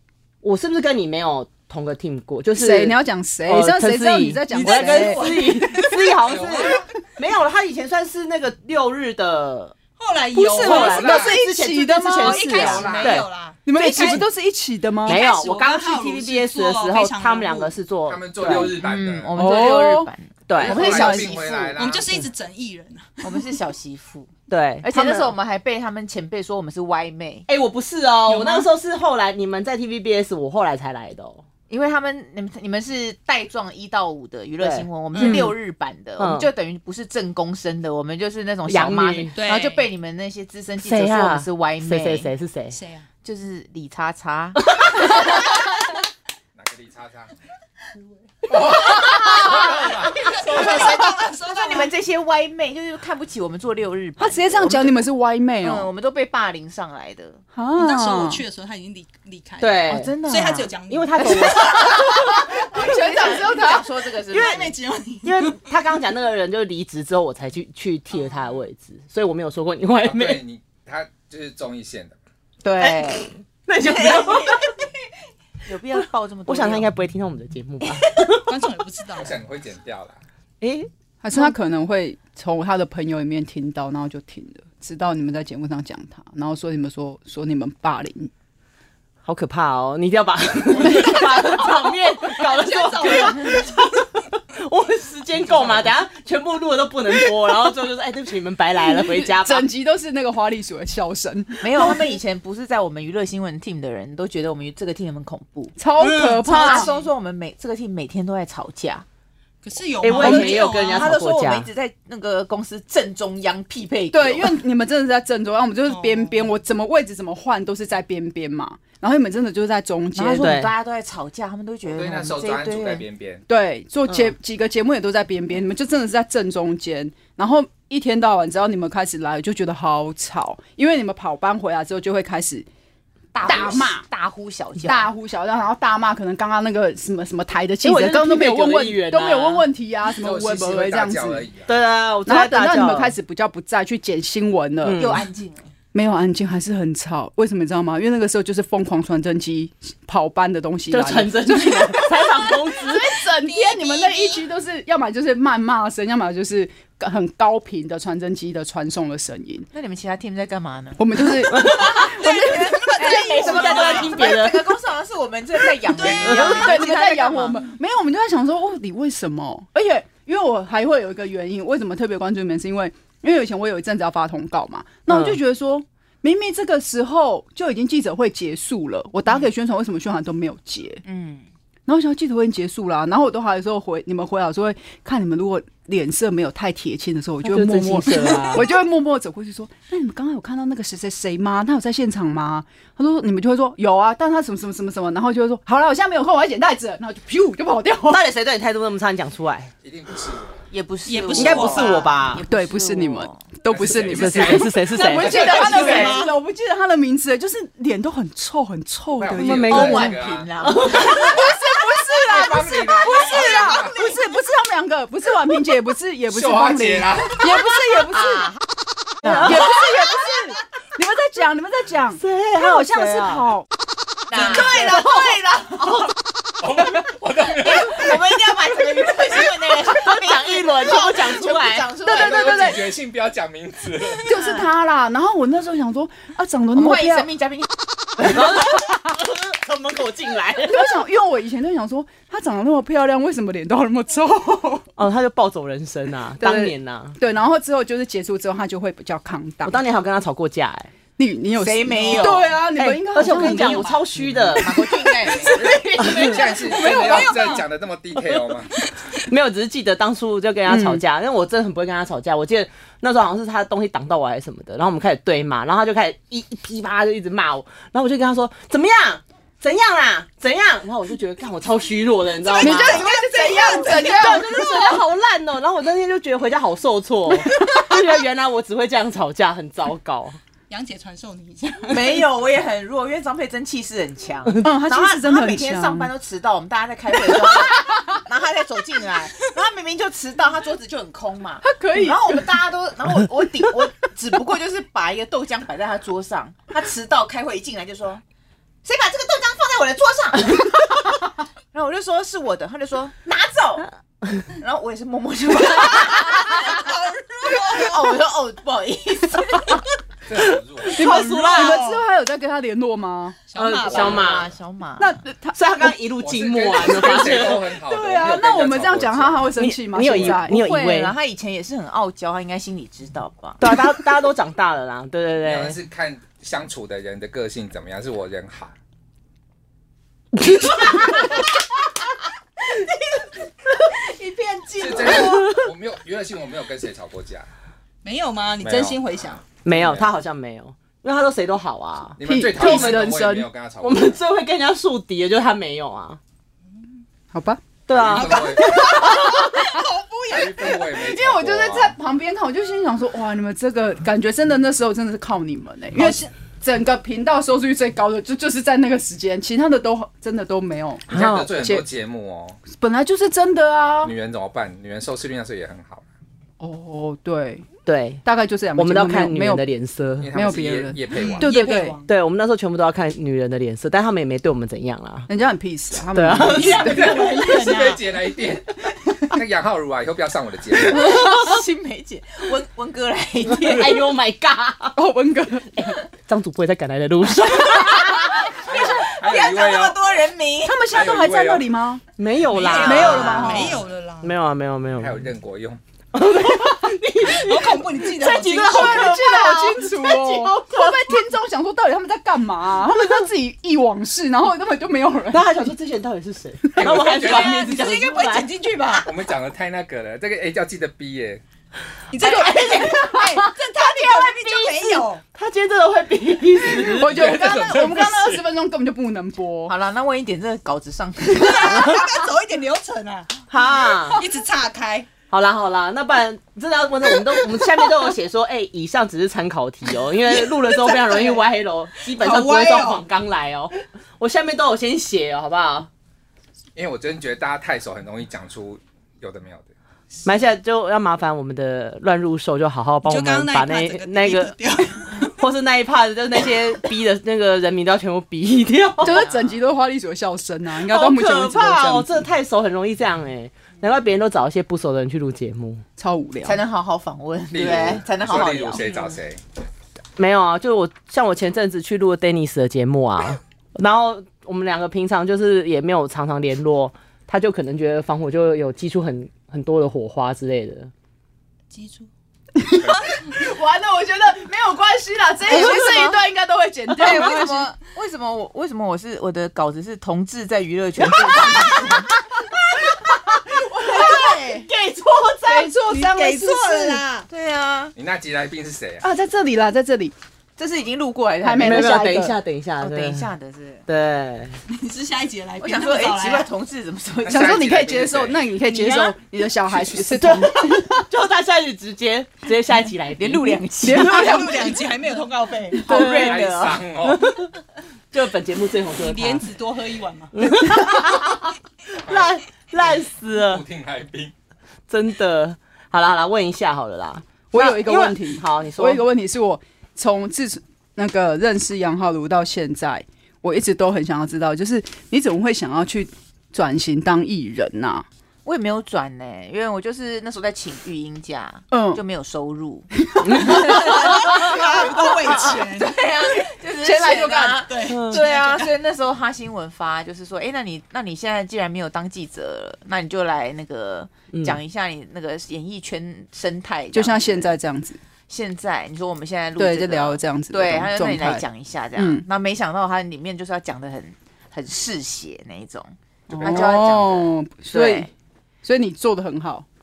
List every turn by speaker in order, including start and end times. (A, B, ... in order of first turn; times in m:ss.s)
0:00.4-0:09.8 A
0:02.5-0:06.0 B
0:04.5-0:06.8 C
0:06.2-0:06.8 D
0:10.0-0:11.4 C
0:10.4-0:13.3 A
0:10.5-0:13.1 B
0:10.6-0:11.4 D
0:12.2-0:14.3 C
0:12.8-0:13.1 D
0:13.6-0:15.2 B
0:15.0-0:18.7 A
0:15.0-0:17.8 C
0:18.1-0:19.6 D
0:18.5-0:21.6 E
0:19.4-0:20.1 B
0:20.5-0:20.9 A
0:20.5-0:22.2 D
0:20.7-0:21.8 B
0:21.8-0:23.6 C
0:23.2-0:24.3 E
0:24.5-0:25.3 A
0:24.8-0:27.4 E
0:27.5-0:31.4 A
0:28.3-0:28.7 C
0:31.7-0:42.3 E
0:34.6-0:35.5 A
0:35.1-0:35.5 C
0:35.2-0:35.5 B
0:36.2-0:36.5 A
0:38.7-0:39.4 A
0:39.4-0:39.9 C
0:40.8-0:42.8 A
0:42.7-0:43.1 C
0:43.2-0:45.4 E
0:44.8-0:45.0 A
0:46.5-0:47.3 D
0:48.5-0:51.1 D
0:49.1-0:51.9 C
0:50.4-0:55.1 E
0:54.2-0:55.9 B
0:55.6-0:57.4 E
0:57.5-0:58.4 B
0:57.8-1:02.4 C
0:59.6-1:00.1 A
0:59.9-1:00.7 E
1:00.9-1:02.1 A
1:01.3-1:04.8 E
1:02.7-1:03.9 B
1:04.3-1:04.7 A
1:04.3-1:05.6 C
1:05.2-1:10.4 A
1:08.2-1:08.5 C
1:10.0-1:12.2 D
1:12.6-1:13.3 E
1:12.8-1:14.7 A
1:13.9-1:14.9 E
1:15.6-1:16.9 E
1:16.5-1:18.4 A
1:18.4-1:19.4 C
1:19.2-1:20.2 D
1:20.6-1:21.4 A
1:21.2-1:28.3 B
1:29.2-1:39.7 A
1:30.8-1:31.6 B
1:32.4-1:33.8 C
1:39.0-1:42.2 B
1:41.6-1:45.8 E
1:45.8-1:46.9 B
1:46.0-1:47.1 C
1:46.4-1:49.0 E
1:49.6-1:51.2 C
1:50.0-1:51.7 A
1:50.1-1:54.6 E
1:50.2-1:50.5 B
1:54.1-2:00.6 B
1:55.9-1:56.4 C
2:00.1-2:03.0 E
2:00.4-2:00.7 A
2:01.9-2:03.4 D
2:03.5-2:12.7 B
2:13.4-2:15.1 E
2:13.4-2:14.0 B
2:14.8-2:21.4 B
2:17.8-2:19.7 A
2:20.2-2:21.7 D
2:21.7-2:23.1 A
2:22.2-2:25.0 B
2:24.8-2:25.2 A
2:25.0-2:25.7 E
2:25.9-2:39.7 B
2:30.9-2:33.1 A
2:33.3-2:34.4 C
2:39.7-2:41.0 E
2:41.0-2:43.0 B
2:41.5-2:42.2 A
2:41.9-2:44.4 C
2:42.5-2:47.6 E
2:43.0-2:44.7 A
2:46.0-3:01.0 B
2:46.2-2:46.7 A
2:55.1-2:55.4 A
3:01.0-3:01.4 E
3:01.9-3:18.2 B
3:07.4-3:08.6 A
3:18.1-3:19.7 A
3:19.8-3:20.6 D
3:20.7-3:23.5 E
3:21.0-3:22.1 C
3:21.3-3:22.4 A
3:22.4-3:30.1 B
3:23.7-3:26.1 D
3:24.1-3:26.2 A
3:25.4-3:26.3 C
3:29.1-3:31.2 D
3:29.4-3:31.4 A
3:29.7-3:33.6 E
3:30.8-3:38.6 B
3:32.2-3:34.0 D
3:36.3-3:37.7 D
3:38.2-3:38.6 E
3:39.2-3:40.4 E
3:39.2-3:39.8 A
3:39.2-3:43.7 B
3:42.2-3:43.5 A
3:44.3-3:46.1 E
3:44.4-3:44.9 B
3:44.4-3:45.2 C
3:44.5-3:45.9 A
3:46.6-3:48.2 D
3:47.5-3:52.8 E
3:49.7-3:51.9 A
3:52.0-3:52.8 B
3:52.1-3:54.2 D
3:54.2-3:57.3 B
3:54.3-3:54.7 E
3:56.8-3:58.4 E
3:58.2-4:00.9 A
4:00.6-4:04.9 B
4:05.0-4:07.2 A
4:06.4-4:09.8 B
4:09.6-4:10.9 A
4:11.2-4:17.6 B
4:11.6-4:12.6 E
4:11.9-4:12.4 C
4:12.7-4:14.8 A
4:13.6-4:14.0 C
4:14.6-4:15.8 E
4:15.4-4:18.7 D
4:15.9-4:16.4 A
4:16.1-4:17.6 C
4:19.2-4:33.0 A
4:20.7-4:21.0 B
4:32.5-4:34.3 C
4:32.6-4:35.0 B
4:32.6-4:34.2 E
4:33.8-4:40.4 A
4:37.4-4:37.9 B
4:40.7-4:42.3 C
4:41.9-4:58.2 E
4:44.6-4:46.1 B
4:51.6-4:52.4 B
4:58.8-5:01.0 E
5:01.7-5:03.9 E
5:04.5-5:06.9 E
5:05.7-5:08.2 C
5:07.5-5:09.8 E
5:10.3-5:11.2 D
5:10.9-5:12.0 C
5:10.9-5:13.4 B
5:11.0-5:11.8 A
5:13.5-5:14.4 C
5:13.5-5:14.5 A
5:13.8-5:15.2 E
5:15.0-5:15.9 B
5:15.5-5:17.6 A
5:16.2-5:19.5 D
5:17.0-5:20.6 B
5:19.6-5:21.1 A
5:20.1-5:23.8 E
5:23.6-5:25.8 A
5:25.4-5:28.7 D
5:30.4-5:31.1 A
5:34.8-5:37.5 D
5:34.8-5:35.5 C
5:38.0-5:39.4 C
5:38.6-5:39.0 D
5:39.6-5:43.0 A
5:39.6-5:40.1 D
5:42.2-5:44.2 D
5:42.2-5:43.5 B
5:43.8-5:46.2 A
5:47.3-5:47.6 B
5:47.9-5:49.5 A
5:47.9-5:48.9 D
5:48.1-5:50.8 C
5:48.9-5:49.8 B
5:50.3-5:51.9 D
5:50.8-6:01.8 B
5:55.9-5:56.3 C
6:01.1-6:02.6 D
6:01.1-6:01.5 A
6:02.7-6:04.1 B
6:04.0-6:06.0 D
6:06.6-6:07.6 B
6:07.9-6:08.2 A
6:08.2-6:09.6 B
6:08.8-6:10.3 A
6:10.2-6:11.5 D
6:10.3-6:12.0 B
6:11.1-6:12.1 C
6:12.0-6:15.3 A
6:15.3-6:17.2 B
6:16.1-6:16.8 A
6:16.4-6:18.0 C
6:16.6-6:21.2 D
6:20.9-6:24.1 E
6:21.0-6:21.3 B
6:23.5-6:25.0 A
6:25.0-6:25.9 B
6:25.8-6:28.2 A
6:27.7-6:30.9 E
6:28.5-6:30.0 D
6:30.6-6:32.0 B
6:30.9-6:31.7 D
6:32.2-6:35.2 A
6:32.4-6:34.3 C
6:32.7-6:33.8 B
6:35.0-6:35.8 D
6:36.1-6:41.2 A
6:37.3-6:39.2 C
6:38.5-6:45.7 B
6:45.3-6:48.6 A
6:46.7-6:47.0 B
6:46.8-6:47.7 D
6:47.0-6:49.1 C
6:48.9-6:51.4 D
6:52.1-6:55.2 C
6:52.2-6:53.5 B
6:52.2-6:53.2 E
6:55.3-6:57.1 A
6:56.8-6:59.7 B
6:56.9-6:58.4 D
6:59.7-7:02.1 E
7:01.3-7:03.4 C
7:03.5-7:04.2 A
7:04.1-7:05.1 C
7:05.3-7:15.9 A
7:10.2-7:11.5 C
7:12.1-7:13.0 C
7:16.8-7:19.7 D
7:20.2-7:24.5 A
7:23.0-7:25.3 C
7:25.2-7:29.2 A
7:29.0-7:32.2 B
7:29.0-7:29.6 E
7:30.8-7:35.8 A
7:36.0-7:36.6 B
7:36.4-7:39.1 E
7:37.5-7:39.4 D
7:40.2-7:50.9 A
7:51.7-7:52.1 C
7:52.6-7:57.7 B
7:55.5-7:56.2 E
7:56.9-8:02.5 E
8:01.1-8:01.9 B
8:03.1-8:04.7 B
8:03.9-8:04.5 E
8:04.1-8:04.4 C
8:04.8-8:05.7 A
8:05.4-8:07.0 B
8:05.9-8:07.3 C
8:07.3-8:07.9 E
8:08.0-8:09.0 D
8:09.0-8:10.1 B
8:10.6-8:12.1 E
8:11.4-8:12.4 B
8:11.6-8:13.3 A
8:12.8-8:13.8 E
8:13.9-8:14.6 A
8:14.7-8:16.5 C
8:15.6-8:17.6 E
8:17.2-8:18.5 D
8:17.3-8:21.0 B
8:18.8-8:19.1 C
8:20.1-8:23.6 A
8:23.2-8:24.9 E
8:23.8-8:24.7 B
8:23.9-8:25.9 C
8:25.7-8:26.8 E
8:25.9-8:26.2 B
8:25.9-8:26.4 A
8:26.0-8:27.2 D
8:27.0-8:27.5 A
8:28.1-8:29.4 A
8:29.0-8:30.4 C
8:30.4-8:33.6 A
8:32.1-8:34.3 D
8:34.9-8:39.0 A
8:37.5-8:48.0 B
8:48.4-9:07.6 E
8:51.7-8:52.0 B
8:53.1-8:54.5 B
8:53.2-8:53.6 A
8:53.5-8:56.0 C
8:56.8-8:57.6 B
8:57.7-8:58.7 C
8:57.9-8:58.2 A
9:04.3-9:04.6 A
9:06.9-9:08.0 B
9:08.3-9:18.1 E
9:09.6-9:11.4 B
9:12.0-9:12.2 B
9:16.3-9:18.1 B
9:18.6-9:19.6 B